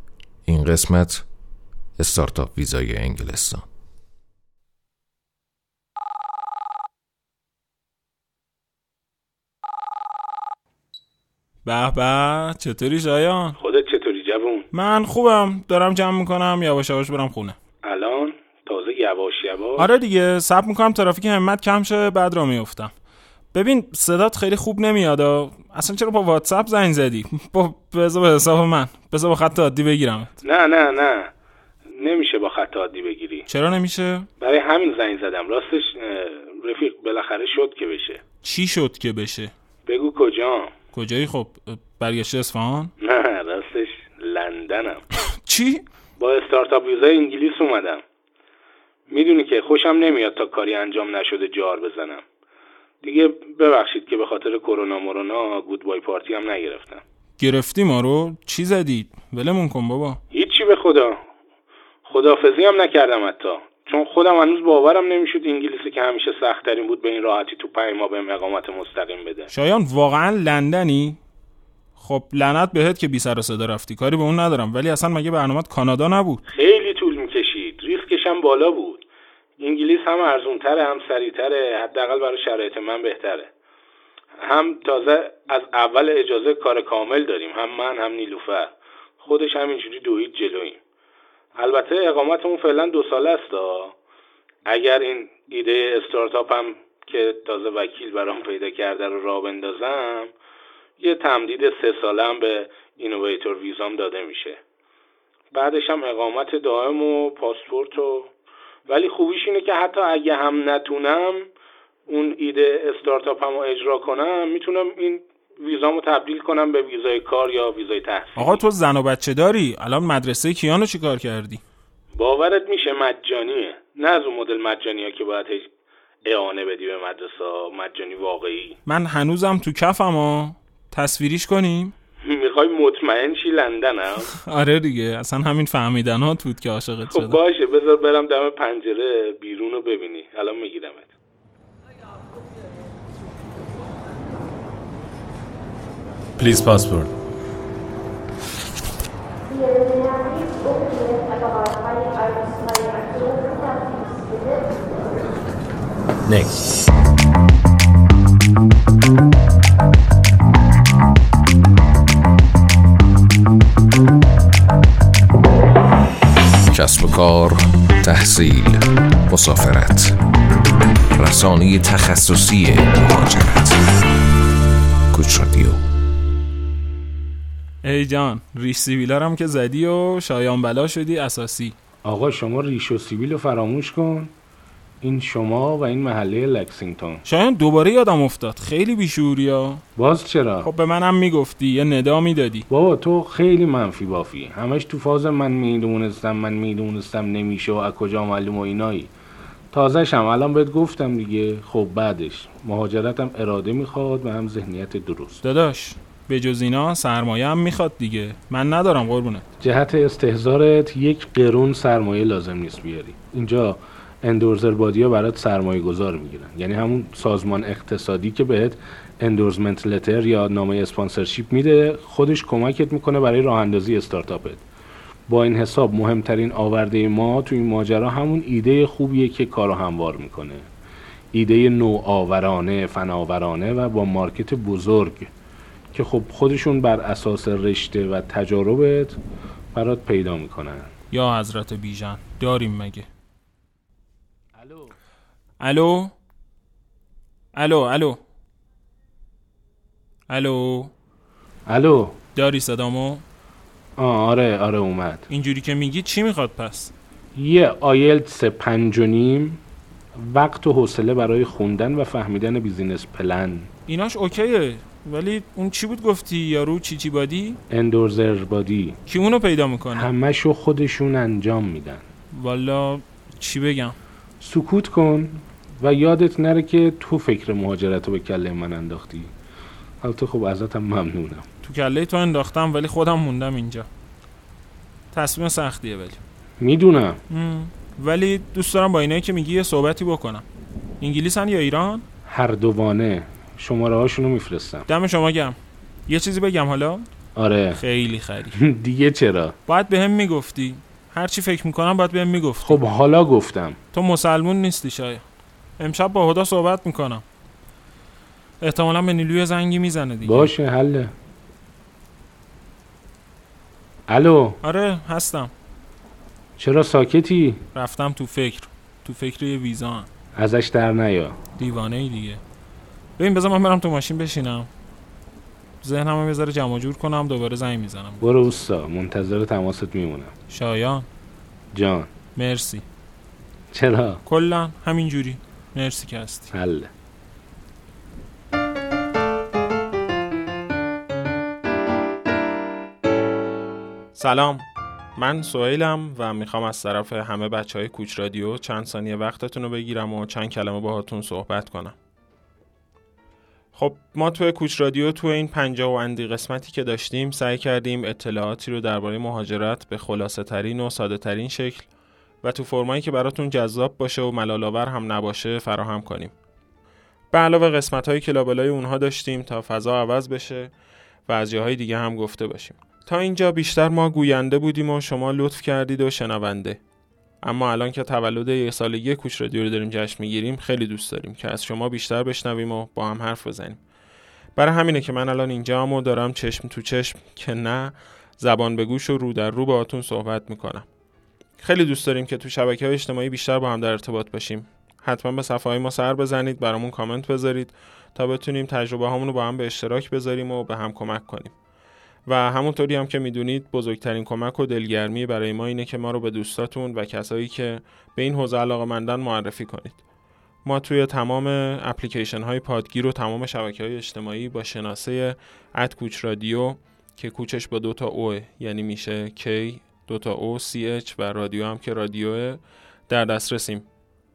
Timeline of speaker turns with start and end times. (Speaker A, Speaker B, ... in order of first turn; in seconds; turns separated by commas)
Speaker A: 0.5-1.3, Speaker A: 2.0-3.6, Speaker B: 11.7-13.6, Speaker C: 13.6-14.7, Speaker B: 14.7-17.6, Speaker C: 17.8-19.9, Speaker B: 19.8-22.9, Speaker B: 23.5-30.3, Speaker C: 30.4-31.3, Speaker C: 31.9-33.5, Speaker B: 33.5-34.3, Speaker C: 34.4-38.2, Speaker B: 38.4-39.5, Speaker C: 39.9-40.7, Speaker B: 40.9-42.9, Speaker C: 43.0-45.0, Speaker B: 45.4-45.8, Speaker C: 46.2-48.0, Speaker C: 49.1-52.2, Speaker C: 53.0-57.0, Speaker B: 57.4-60.2, Speaker C: 60.3-61.2, Speaker C: 62.0-69.5, Speaker B: 69.5-71.2, Speaker B: 72.0-76.4, Speaker C: 76.5-79.0, Speaker C: 79.6-83.5, Speaker C: 84.4-90.8, Speaker C: 91.6-94.0, Speaker C: 94.7-100.3, Speaker C: 101.0-104.6, Speaker C: 105.5-108.3, Speaker C: 108.9-111.5, Speaker C: 112.1-118.6, Speaker B: 118.4-121.6, Speaker C: 122.1-125.7, Speaker C: 126.2-128.8, Speaker B: 128.9-131.9, Speaker C: 132.2-134.3, Speaker B: 134.3-137.4, Speaker C: 137.1-141.1, Speaker A: 166.7-170.2, Speaker A: 171.1-173.8, Speaker A: 175.1-175.8, Speaker B: 177.8-181.8, Speaker C: 182.0-184.3, Speaker C: 185.0-187.2, Speaker B: 187.2-189.8, Speaker C: 190.0-190.7, Speaker B: 190.6-192.7, Speaker C: 192.7-199.1, Speaker C: 199.7-205.4, Speaker B: 205.4-209.5, Speaker C: 209.6-224.6, Speaker C: 225.3-230.7, Speaker C: 231.3-235.3, Speaker C: 235.9-239.2, Speaker C: 239.7-240.9, Speaker B: 241.1-243.1, Speaker C: 244.6-244.9, Speaker B: 245.6-246.1, Speaker B: 247.5-248.2, Speaker B: 250.3-250.9, Speaker C: 251.7-252.2, Speaker B: 252.3-253.2, Speaker C: 254.0-255.3, Speaker B: 255.3-256.9, Speaker C: 257.4-259.6, Speaker C: 260.2-263.7, Speaker B: 263.9-267.6, Speaker C: 267.7-269.0, Speaker B: 269.1-270.1, Speaker C: 269.9-272.1, Speaker B: 272.3-274.0, Speaker C: 274.4-279.3, Speaker C: 280.0-281.5, Speaker B: 281.6-283.9, Speaker B: 285.1-286.2, Speaker C: 286.6-287.2, Speaker B: 287.3-290.4, Speaker B: 291.0-292.1, Speaker C: 292.3-294.9, Speaker B: 294.9-297.1, Speaker C: 297.4-297.8, Speaker B: 297.8-298.6, Speaker C: 298.5-299.6, Speaker B: 299.7-302.8, Speaker C: 302.6-303.8, Speaker B: 303.9-305.2, Speaker B: 305.8-307.2, Speaker B: 308.6-310.5, Speaker C: 310.2-311.1, Speaker C: 314.1-314.6, Speaker B: 314.6-315.5, Speaker C: 316.6-317.6, Speaker B: 317.7-320.1, Speaker C: 320.4-321.4, Speaker B: 321.6-322.4, Speaker B: 323.2-324.7, Speaker B: 325.8-328.5, Speaker C: 328.2-330.3, Speaker B: 330.5-331.1, Speaker C: 331.7-332.1, Speaker B: 332.4-332.9, Speaker C: 333.7-334.2, Speaker B: 334.3-336.5, Speaker C: 336.5-336.9, Speaker B: 344.1-352.0, Speaker B: 353.7-361.9, Speaker B: 362.4-366.3, Speaker B: 367.3-370.7, Speaker B: 371.3-376.8, Speaker B: 377.4-383.8, Speaker B: 384.6-390.9, Speaker B: 391.6-401.5, Speaker B: 402.3-410.0, Speaker B: 410.6-423.9